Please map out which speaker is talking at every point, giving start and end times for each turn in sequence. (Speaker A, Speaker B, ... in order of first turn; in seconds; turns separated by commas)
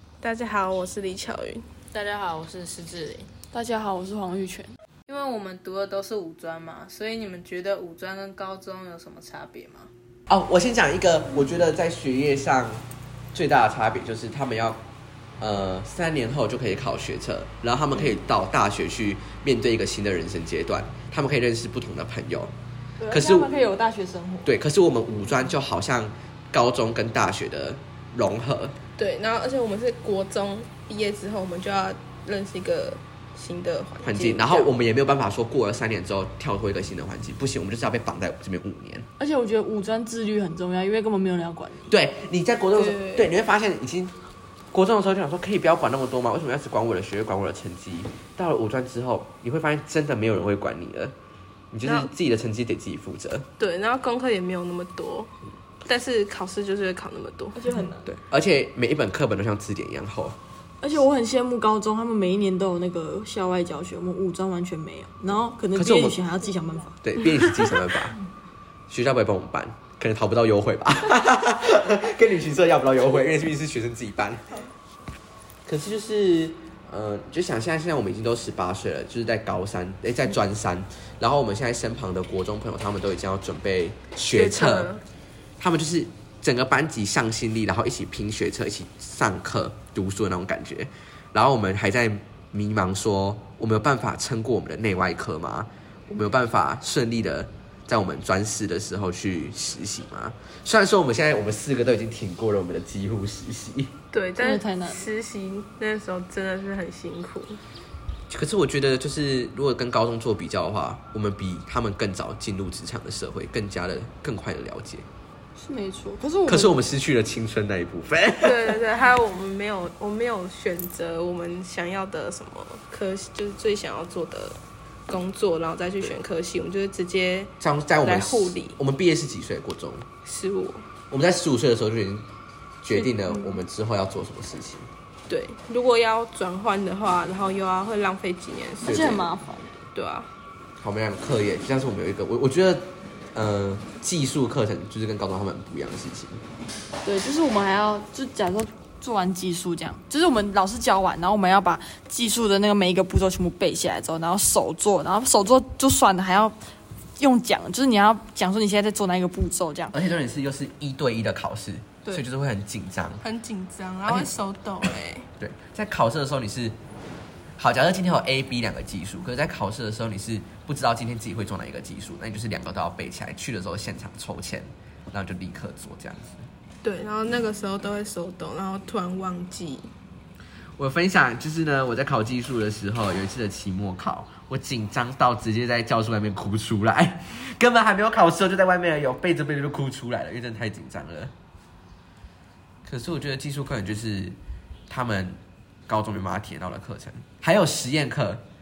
Speaker A: 0.2-1.6, Speaker B: 1.9-3.3, Speaker C: 3.5-4.7, Speaker B: 5.0-9.9, Speaker D: 10.3-14.8, Speaker D: 15.4-22.5, Speaker C: 23.0-24.5, Speaker D: 23.1-23.6, Speaker D: 24.4-28.8, Speaker A: 29.0-34.8, Speaker D: 34.0-39.0, Speaker C: 39.2-41.9, Speaker D: 41.9-44.1, Speaker A: 42.7-43.3, Speaker D: 44.7-51.1, Speaker D: 51.7-53.5, Speaker A: 51.8-52.1, Speaker A: 53.6-55.3, Speaker A: 55.8-57.6, Speaker C: 57.5-58.1, Speaker D: 58.0-60.4, Speaker C: 60.8-67.0, Speaker D: 65.7-66.2, Speaker D: 67.0-68.2, Speaker D: 68.9-74.6, Speaker D: 75.7-84.9, Speaker A: 84.3-85.0, Speaker D: 85.6-103.9, Speaker A: 104.1-107.6, Speaker C: 104.4-105.1, Speaker D: 108.3-115.0, Speaker C: 115.5-116.8, Speaker D: 116.5-118.8, Speaker A: 118.4-128.8, Speaker D: 127.6-130.1, Speaker A: 130.2-130.9, Speaker D: 131.1-132.2, Speaker D: 132.8-134.9, Speaker C: 132.9-133.6, Speaker A: 135.3-139.2, Speaker C: 138.8-139.7, Speaker D: 138.8-139.2, Speaker A: 139.9-140.3, Speaker D: 140.8-146.4, Speaker C: 147.0-156.6, Speaker C: 157.2-159.9, Speaker D: 159.9-163.2, Speaker A: 163.2-165.3, Speaker D: 164.1-164.3, Speaker D: 165.4-166.8, Speaker D: 167.6-176.5, Speaker A: 176.8-179.9, Speaker D: 180.8-191.3, Speaker D: 192.8-194.4, Speaker D: 194.9-198.4